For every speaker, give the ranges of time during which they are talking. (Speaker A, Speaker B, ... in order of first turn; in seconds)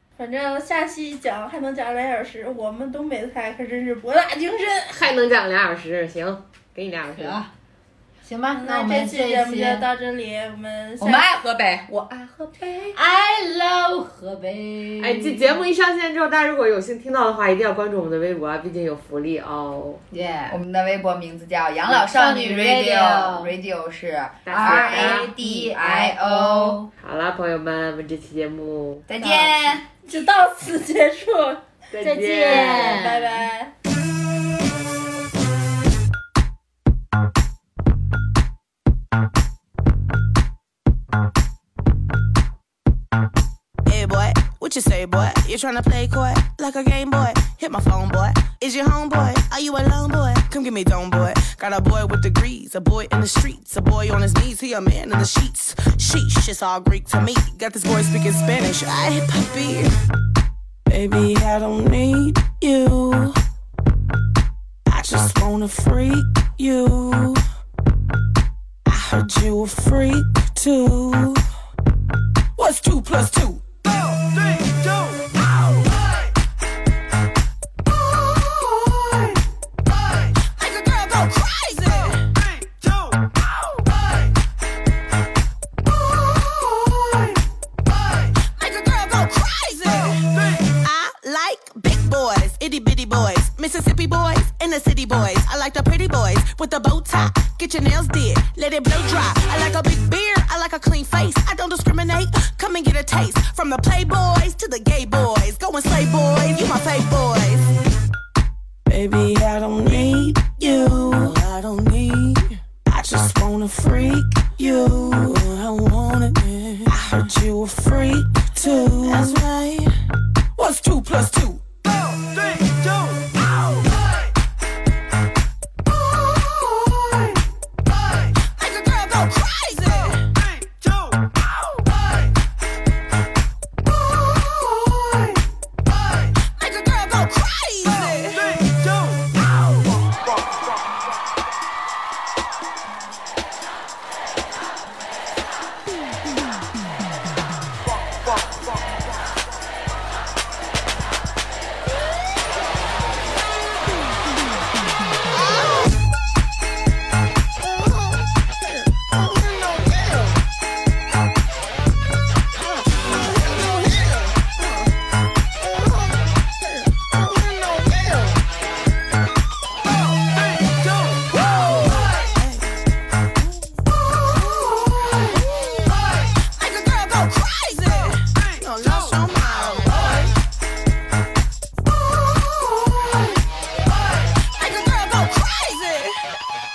Speaker A: 0.2-4.9, 8.5-11.2, 30.1-31.6, 32.5-33.7
Speaker B: 4.9-7.4, 15.0-20.0, 24.4-25.3, 27.0-29.8, 31.9-33.1
Speaker C: 7.1-7.5, 8.2-9.9, 12.9-15.6, 20.1-20.6, 21.9-23.5, 24.5-26.9, 32.0-33.4
Speaker D: 11.0-13.0, 20.5-26.9, 29.1-29.9
Speaker E: 43.9-59.9, 60.9-63.3, 64.9-67.4, 68.9-71.4, 72.6-73.6, 80.5-82.3, 88.5-107.7, 108.9-119.9, 120.5-121.6, 128.5-130.3, 136.6-138.7, 172.0-172.6, 176.5-180.3, 184.6-186.2